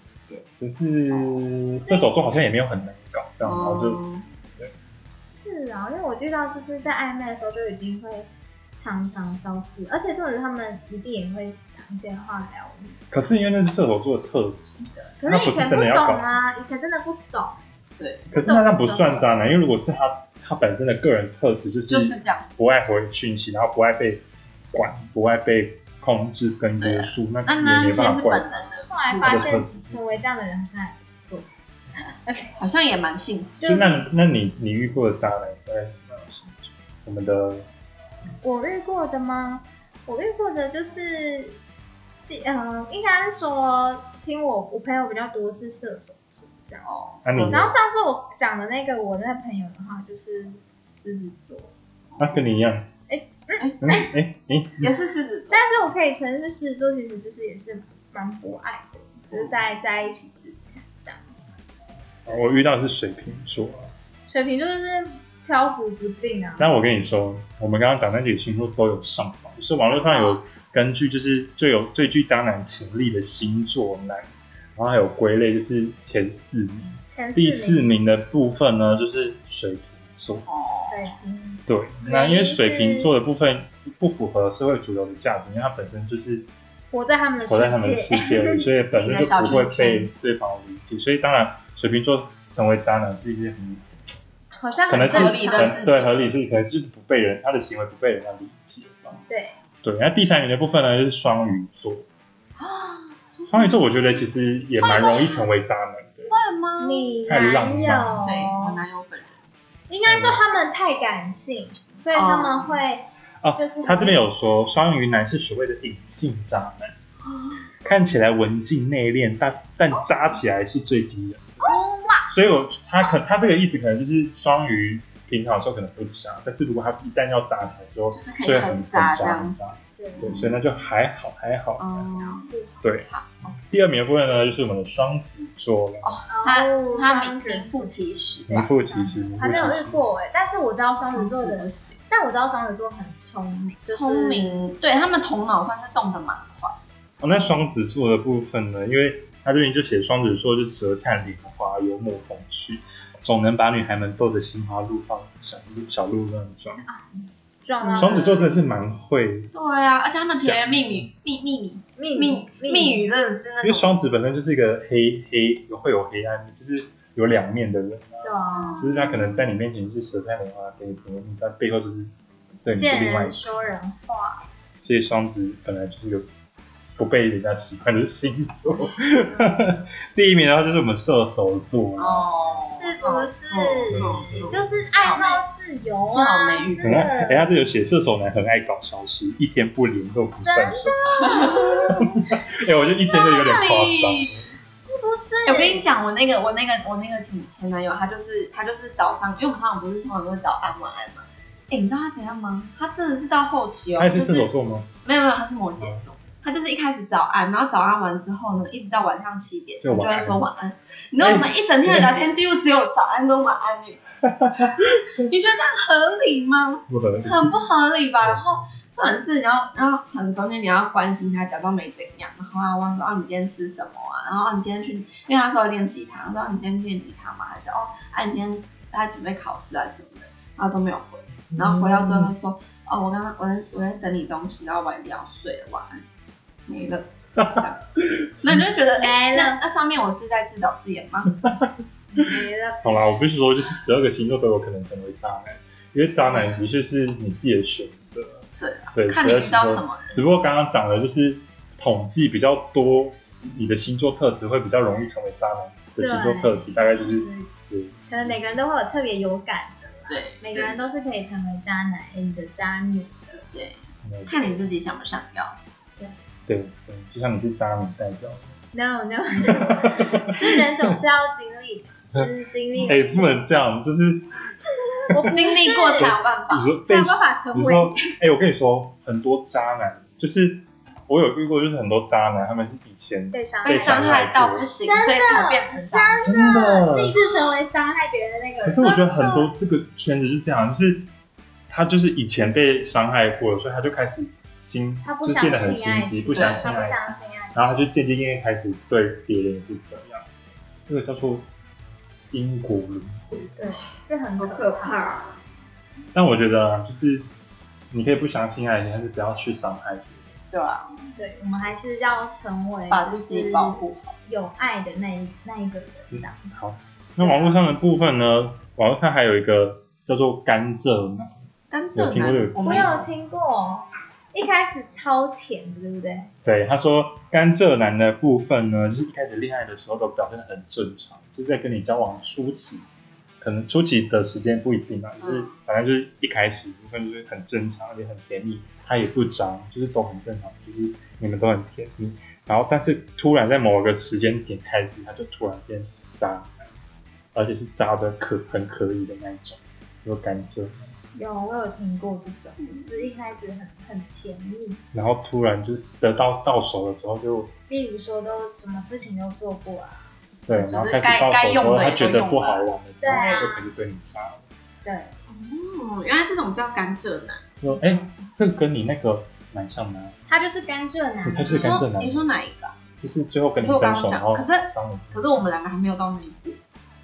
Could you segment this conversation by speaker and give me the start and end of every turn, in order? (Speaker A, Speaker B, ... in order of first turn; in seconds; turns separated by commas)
Speaker A: 0.3-4.0, Speaker B: 1.1-1.4, Speaker C: 1.8-2.1, Speaker B: 3.4-4.2, Speaker C: 5.3-13.0, Speaker A: 13.1-16.3, Speaker C: 15.1-17.6, Speaker B: 18.0-18.3, Speaker A: 18.3-28.7, Speaker C: 18.4-19.3, Speaker B: 21.9-22.5, Speaker B: 26.8-29.6, Speaker C: 28.9-31.5, Speaker A: 29.2-30.2, Speaker C: 32.2-32.5, Speaker B: 32.6-33.6, Speaker C: 33.6-34.0, Speaker A: 33.6-37.7, Speaker C: 38.4-41.6, Speaker C: 42.3-46.9, Speaker B: 46.8-47.7, Speaker A: 47.2-47.7, Speaker C: 47.5-51.7, Speaker A: 52.2-52.9, Speaker C: 53.1-54.1, Speaker B: 53.6-53.9, Speaker A: 53.8-54.9, Speaker B: 54.8-55.7, Speaker C: 55.5-61.3, Speaker A: 62.2-63.9, Speaker C: 64.3-66.7, Speaker A: 66.6-80.5, Speaker C: 69.9-70.4, Speaker C: 77.1-77.9, Speaker B: 80.5-81.1, Speaker C: 80.8-83.1, Speaker A: 81.7-86.5, Speaker C: 86.9-88.7, Speaker A: 87.4-93.8, Speaker B: 88.9-90.1, Speaker C: 94.6-95.8, Speaker A: 94.9-99.2, Speaker B: 95.0-96.1, Speaker C: 99.3-99.5, Speaker A: 99.8-102.1, Speaker B: 102.6-104.0, Speaker A: 103.5-106.3, Speaker B: 104.8-105.5, Speaker B: 106.3-107.2, Speaker C: 106.8-108.8, Speaker A: 107.3-108.3, Speaker B: 108.2-109.4, Speaker C: 109.9-114.2, Speaker A: 110.0-110.4, Speaker B: 112.1-112.8, Speaker A: 113.4-116.9, Speaker B: 117.2-117.6, Speaker A: 117.8-121.7, Speaker B: 121.6-122.2, Speaker A: 122.3-132.1, Speaker B: 128.1-129.6, Speaker C: 130.0-130.3, Speaker B: 130.2-130.5, Speaker B: 131.8-132.5, Speaker C: 132.3-132.8, Speaker A: 132.8-136.1, Speaker B: 133.1-133.5, Speaker B: 136.0-138.7, Speaker C: 136.3-137.9, Speaker A: 138.5-140.0, Speaker C: 138.8-144.7, Speaker B: 141.0-142.0, Speaker B: 143.9-146.8, Speaker A: 147.2-156.8, Speaker C: 156.8-158.5, Speaker B: 157.8-158.5, Speaker A: 157.9-159.5, Speaker B: 159.5-164.0, Speaker A: 160.3-161.1, Speaker C: 162.0-163.0, Speaker A: 163.6-172.1, Speaker C: 168.2-168.9, Speaker B: 168.5-169.3, Speaker A: 172.6-173.7, Speaker C: 172.8-174.4, Speaker A: 174.8-176.3, Speaker A: 177.0-182.3, Speaker B: 182.0-185.4, Speaker C: 182.7-187.5, Speaker A: 183.8-184.7, Speaker B: 186.0-187.1, Speaker A: 186.8-194.5, Speaker C: 190.4-192.3, Speaker B: 191.2-191.8, Speaker B: 193.1-194.4, Speaker C: 193.1-193.5, Speaker C: 194.8-195.8, Speaker B: 195.4-204.5, Speaker A: 203.9-204.9, Speaker B: 205.0-214.1, Speaker A: 209.8-210.4, Speaker A: 211.2-212.2, Speaker A: 214.2-215.2, Speaker B: 215.2-236.0, Speaker A: 216.9-217.6, Speaker A: 231.5-232.3, Speaker B: 236.7-237.9, Speaker A: 237.4-238.6, Speaker B: 238.4-241.4, Speaker C: 238.9-239.6, Speaker A: 241.4-242.3, Speaker C: 242.1-242.9, Speaker A: 242.8-258.3, Speaker B: 248.6-250.2, Speaker C: 256.0-257.5, Speaker C: 258.1-263.4, Speaker B: 260.1-260.8, Speaker B: 263.5-265.6, Speaker A: 264.0-264.7, Speaker A: 266.5-268.6, Speaker C: 268.7-273.6, Speaker A: 269.4-270.9, Speaker A: 272.8-274.3, Speaker C: 275.0-276.1, Speaker A: 275.1-275.4, Speaker B: 275.2-276.7, Speaker A: 275.9-284.7, Speaker C: 276.9-277.9, Speaker C: 283.3-284.2, Speaker B: 283.6-286.3, Speaker C: 284.8-289.5, Speaker A: 286.2-287.2, Speaker A: 288.6-291.1, Speaker A: 291.7-300.3, Speaker C: 295.0-297.8, Speaker B: 296.3-296.7, Speaker A: 300.8-301.5, Speaker A: 302.3-303.5, Speaker C: 303.6-305.0, Speaker B: 304.4-305.4, Speaker A: 306.1-307.3, Speaker A: 307.9-310.4, Speaker B: 310.5-311.1, Speaker C: 311.2-316.5, Speaker B: 312.9-314.2, Speaker A: 316.1-321.4, Speaker C: 317.2-317.6, Speaker B: 321.7-322.9, Speaker A: 321.9-323.1, Speaker C: 322.6-326.3, Speaker A: 326.4-332.9, Speaker A: 333.4-346.7, Speaker B: 335.2-335.5, Speaker A: 347.3-350.9, Speaker C: 351.1-354.8, Speaker B: 352.6-353.1, Speaker A: 354.9-357.5, Speaker C: 357.7-360.1, Speaker A: 360.5-364.4, Speaker B: 360.5-363.5, Speaker C: 363.0-363.6, Speaker C: 364.8-365.2, Speaker B: 365.3-367.6, Speaker A: 367.6-370.1, Speaker C: 370.3-371.8, Speaker A: 371.2-372.2, Speaker B: 371.5-372.8, Speaker A: 373.0-375.4, Speaker B: 373.6-376.6